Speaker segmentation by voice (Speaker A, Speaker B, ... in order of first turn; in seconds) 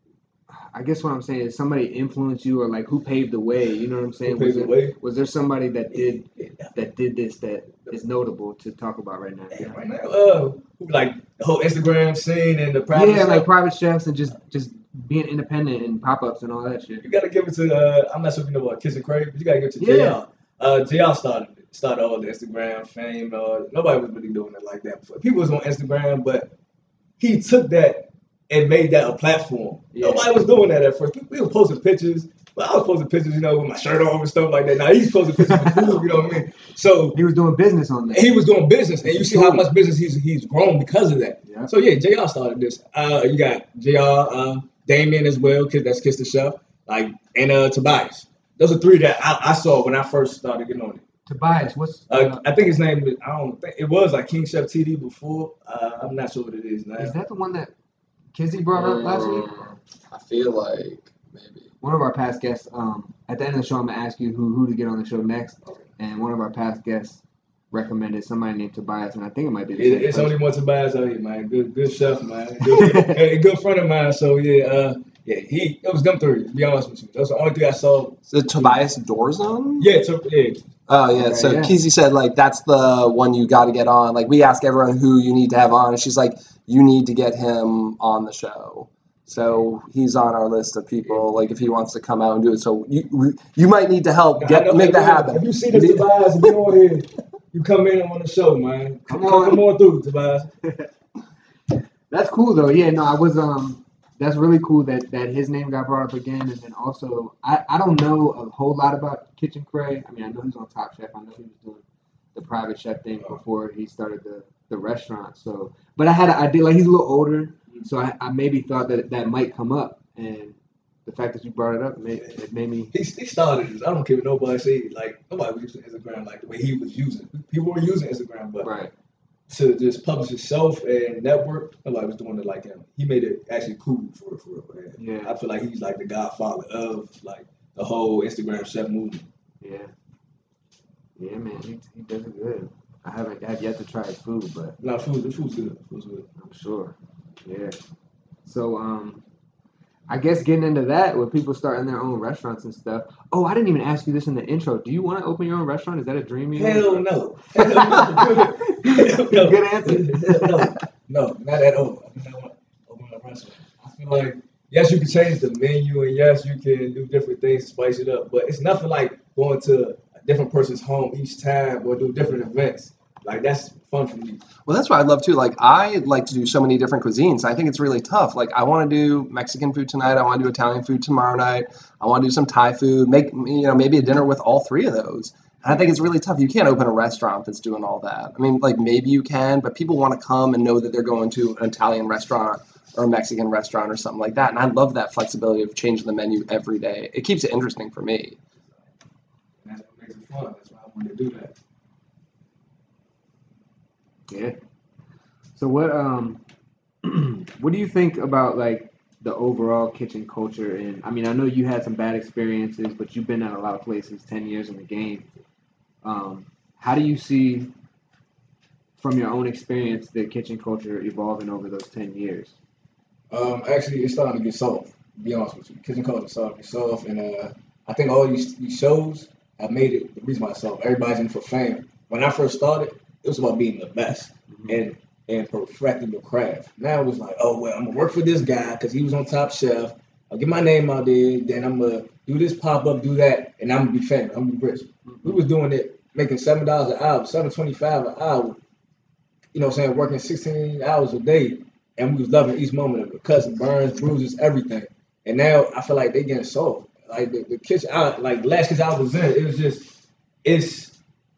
Speaker A: 0.5-9.8, 12.9-17.0, 19.8-20.2, 29.9-30.3, 35.5-35.9, 37.1-38.3, 39.0-39.6, 51.2-52.4, 57.0-57.7, 58.3-59.5, 61.8-70.3, 72.7-73.2, 81.1-81.7, 99.1-99.6, 102.1-111.8, 112.3-122.9, 128.6-128.9, 135.0-135.3, 139.6-139.9, 141.2-144.8, 146.4-147.8, 148.4-149.2, 150.1-160.8, 204.3-204.6, 205.5-206.4, 207.0-215.3, 216.0-217.7, 219.0-222.5, 245.1-245.4
Speaker B: 4.3-5.0, 6.4-6.7, 9.5-13.5, 17.0-26.5, 27.2-37.2, 38.1-51.0, 52.1-57.1, 69.7-78.8, 79.8-80.7, 94.4-100.5, 122.9-128.7, 129.5-139.3, 144.8-146.3, 156.5-174.4, 199.6-201.6, 223.3-248.6, 249.5-259.9, 260.4-260.9
Speaker C: 58.7-61.7, 78.3-79.9, 80.9-96.5, 174.7-198.4